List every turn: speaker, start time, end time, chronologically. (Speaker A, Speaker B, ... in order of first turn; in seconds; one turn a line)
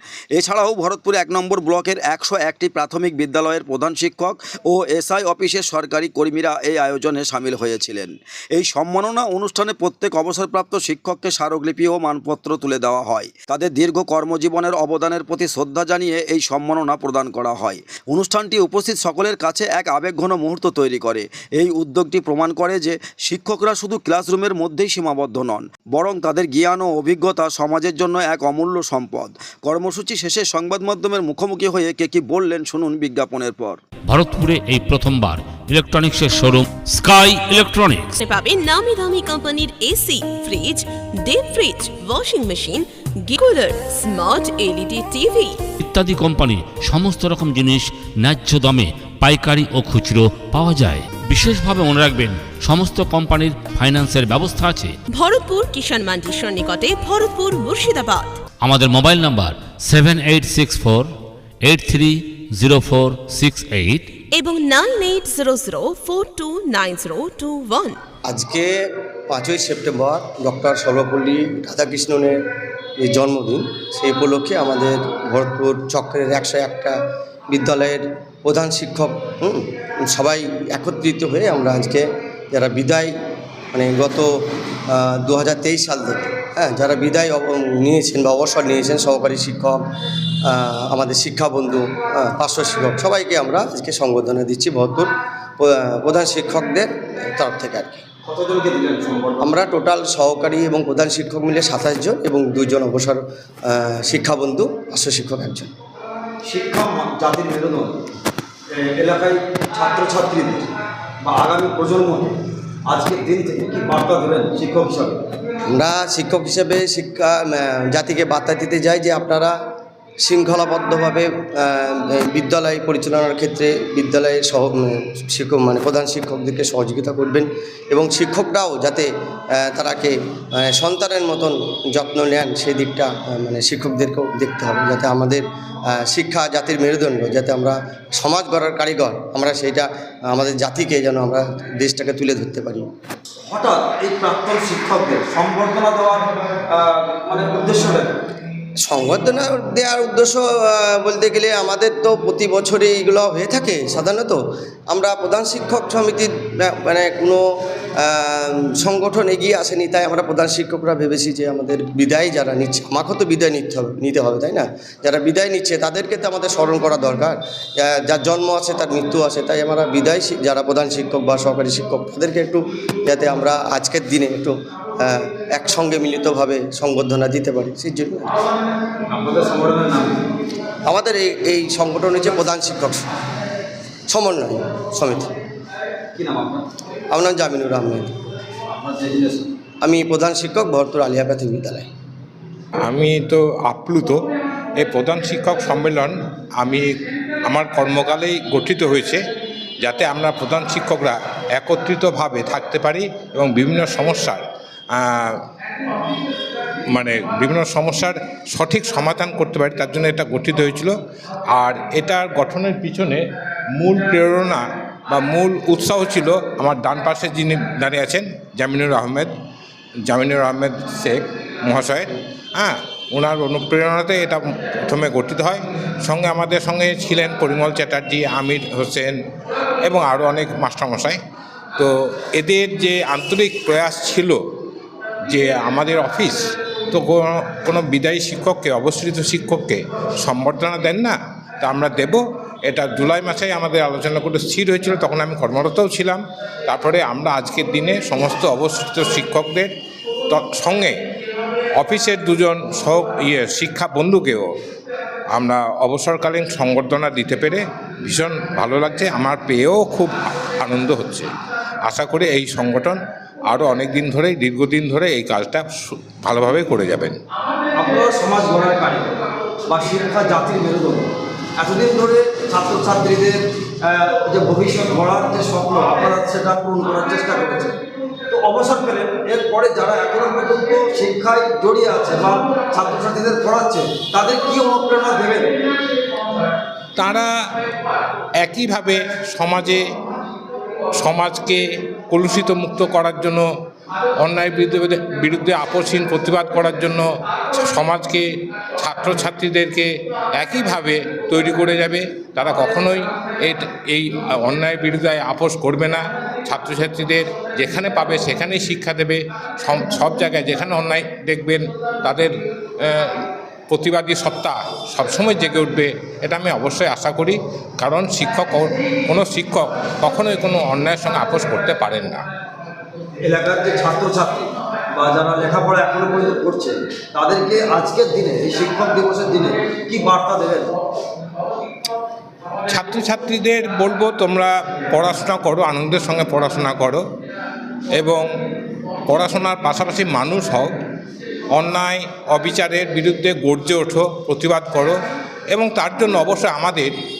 Speaker A: 0.3-33.8
Speaker B: 34.1-38.2
Speaker C: 38.2-45.6
Speaker B: 45.8-55.0
Speaker C: 55.1-58.3
Speaker B: 58.6-61.1
Speaker B: 61.6-64.1
Speaker C: 64.3-68.0
Speaker D: 68.3-72.4
Speaker D: 73.0-77.0
Speaker D: 77.5-83.1
Speaker D: 83.7-84.3
Speaker D: 84.9-89.8
Speaker D: 90.5-98.0
Speaker E: 98.3-99.6
Speaker D: 99.4-105.7
Speaker E: 106.5-108.0
Speaker E: 108.8-110.7
Speaker E: 111.2-112.3
Speaker E: 112.9-115.2
Speaker D: 115.7-119.5
Speaker D: 120.2-142.9
Speaker E: 143.5-148.2
Speaker D: 148.8-157.4
Speaker D: 158.0-178.3
Speaker E: 179.1-180.2
Speaker D: 180.9-183.1
Speaker D: 184.1-185.3
Speaker E: 186.2-186.7
Speaker D: 187.1-188.2
Speaker E: 188.8-189.5
Speaker D: 189.8-191.9
Speaker F: 192.8-194.2
Speaker F: 194.8-196.9
Speaker F: 197.5-199.2
Speaker F: 199.8-204.4
Speaker F: 204.9-205.4
Speaker F: 206.9-210.9
Speaker F: 211.5-213.2
Speaker F: 213.8-219.3
Speaker F: 220.1-229.1
Speaker F: 229.9-231.2
Speaker F: 231.8-234.4
Speaker F: 235.3-236.4
Speaker F: 236.9-249.7
Speaker F: 250.3-250.9
Speaker F: 251.8-254.5
Speaker F: 255.3-261.3
Speaker F: 261.9-263.0
Speaker F: 263.5-265.7
Speaker F: 266.2-267.2
Speaker E: 267.8-277.8
Speaker E: 278.3-285.5
Speaker F: 287.0-287.3
Speaker F: 288.4-289.8
Speaker F: 291.0-291.6
Speaker F: 292.1-293.4
Speaker F: 294.2-297.0
Speaker F: 297.6-298.2
Speaker F: 298.8-313.2
Speaker F: 313.7-322.2
Speaker E: 323.2-330.7
Speaker F: 332.7-337.0
Speaker F: 338.0-338.2
Speaker F: 339.1-340.7
Speaker F: 341.6-345.0
Speaker F: 345.5-346.9